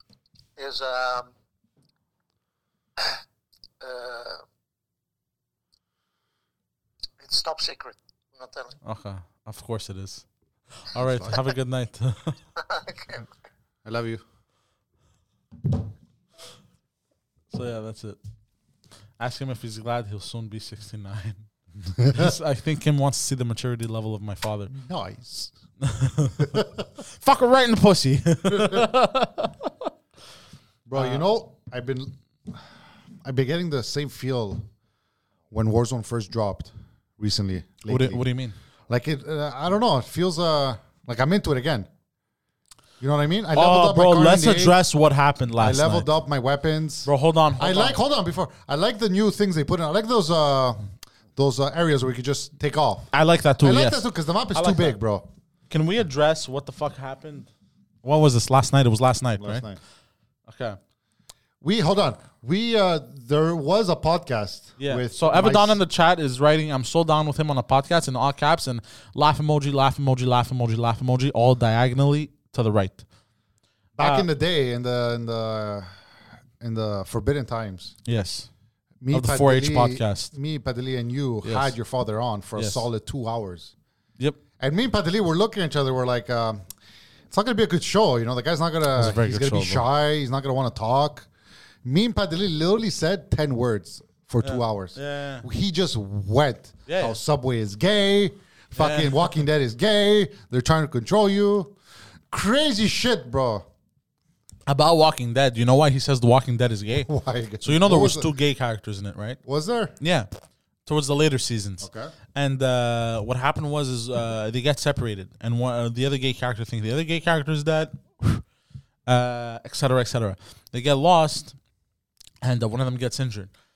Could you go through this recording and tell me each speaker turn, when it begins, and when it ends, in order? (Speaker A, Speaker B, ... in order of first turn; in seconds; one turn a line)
Speaker A: 0.6-1.3
Speaker A: 3.8-4.4
Speaker A: 7.2-8.8
Speaker B: 8.8-12.4
Speaker C: 10.9-11.4
Speaker A: 12.6-13.3
Speaker C: 13.8-14.2
Speaker B: 17.5-18.2
Speaker B: 19.2-21.5
Speaker C: 21.9-22.3
Speaker B: 22.0-24.7
Speaker C: 24.7-25.5
Speaker B: 25.8-29.7
Speaker C: 26.4-26.8
Speaker C: 28.5-28.9
Speaker C: 30.9-32.7
Speaker B: 30.9-31.2
Speaker C: 33.2-34.6
Speaker C: 35.5-38.2
Speaker B: 37.9-38.5
Speaker C: 38.9-41.9
Speaker C: 43.0-44.8
Speaker B: 43.5-46.1
Speaker C: 45.6-50.8
Speaker B: 47.0-48.0
Speaker C: 51.4-55.2
Speaker B: 53.1-54.0
Speaker B: 54.5-55.0
Speaker B: 55.7-57.5
Speaker B: 58.0-59.6
Speaker C: 59.4-59.8
Speaker B: 60.5-60.8
Speaker C: 61.6-65.8
Speaker B: 64.8-73.0
Speaker C: 74.0-75.9
Speaker B: 74.0-74.3
Speaker C: 76.6-77.9
Speaker B: 78.0-78.5
Speaker C: 79.0-83.7
Speaker B: 79.1-80.3
Speaker B: 81.4-81.7
Speaker B: 82.5-82.9
Speaker C: 84.6-86.6
Speaker C: 87.3-91.3
Speaker B: 88.9-89.8
Speaker C: 91.8-101.7
Speaker B: 94.4-95.5
Speaker B: 96.9-97.2
Speaker B: 98.8-99.3
Speaker C: 102.3-103.6
Speaker B: 104.7-107.1
Speaker C: 107.1-108.3
Speaker B: 107.6-109.4
Speaker C: 109.4-109.9
Speaker B: 110.0-110.3
Speaker B: 110.8-118.4
Speaker C: 111.8-112.1
Speaker B: 119.1-121.6
Speaker B: 122.4-123.5